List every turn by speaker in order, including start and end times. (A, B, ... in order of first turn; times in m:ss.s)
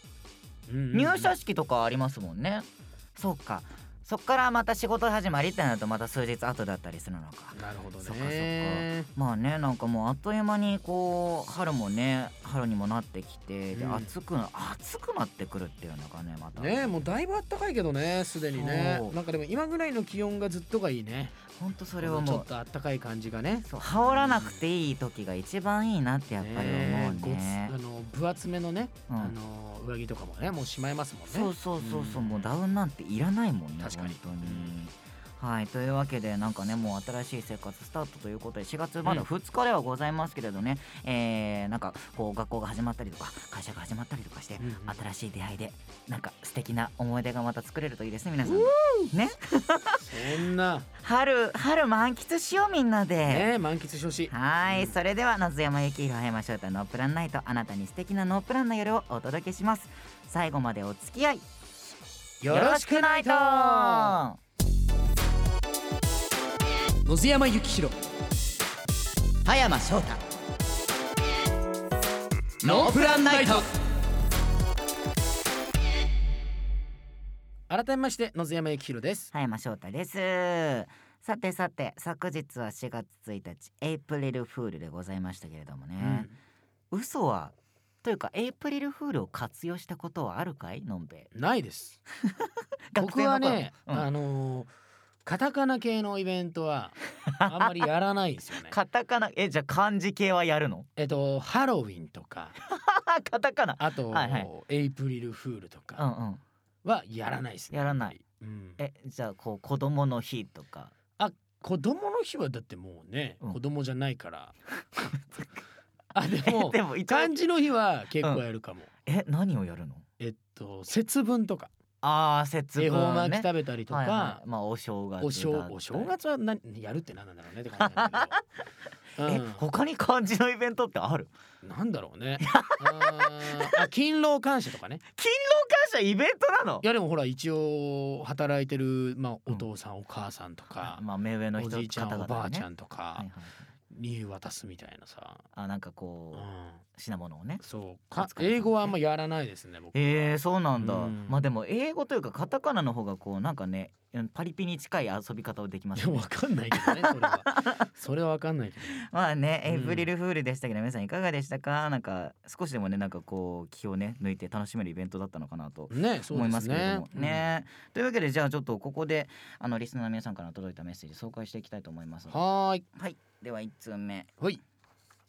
0:00.7-0:01.3 A
0:00.9-0:16.9 B
0:07.5-0:09.1 A
0:13.7-0:14.1 A
0:16.6-0:21.4 A
0:18.5-0:19.2 B
0:21.5-0:22.5 B
0:22.0-0:24.6 A
0:23.7-0:27.7 B
0:26.4-0:32.6 A
0:29.1-0:29.3 B
0:31.3-0:50.4 B
0:33.8-0:34.8 A
0:44.6-0:45.0 A
0:48.4-0:49.1 A
0:50.0-0:50.9 A
0:51.0-0:53.5 B
0:53.3-0:55.0 A
0:54.3-1:01.5 B
1:02.4-1:04.2 A
1:02.5-1:04.4 B
1:07.0-1:08.0 A
1:09.4-1:10.2 B
1:12.6-1:13.7 B
1:12.6-1:13.7 A
1:17.7-1:19.3 A
1:19.3-1:26.3 B
1:26.0-1:26.4 A
1:26.9-1:31.3 B
1:31.3-1:32.0 A
1:32.2-1:34.1 B
1:33.0-1:34.7 A
1:35.2-1:38.8 A
1:37.3-1:37.8 B
1:38.6-1:40.9 B
1:41.0-1:42.6 A
1:42.6-1:44.5 B
1:43.8-1:46.0 A
1:46.0-1:46.4 B
1:46.8-1:48.8 A
1:47.7-1:48.2 B
1:48.8-1:50.9 B
1:51.2-1:54.6 A
1:56.1-1:58.9 A
1:56.4-1:57.4 B
1:59.1-2:00.0 B
2:00.2-2:01.7 A
2:02.0-2:06.1 B
2:02.8-2:04.4 A
2:05.2-2:08.4 A
2:07.8-2:08.4 B
2:09.2-2:09.6 A
2:09.2-2:11.3 B
2:11.6-2:15.0 A
2:12.4-2:13.8 B
2:15.2-2:16.8 B
2:16.8-2:21.0 A
2:20.8-2:23.6 B
2:21.6-2:23.3 A
2:23.9-2:25.4 A
2:25.5-2:27.6 B
2:26.3-2:26.8 A
2:27.6-2:31.4 A
2:28.2-2:28.9 B
2:29.9-2:37.8 B
2:36.0-2:39.0 A
2:39.0-2:52.4 B
2:39.7-2:40.1 A
2:45.9-2:47.5 A
2:52.3-2:52.8 A
2:53.0-2:54.3 B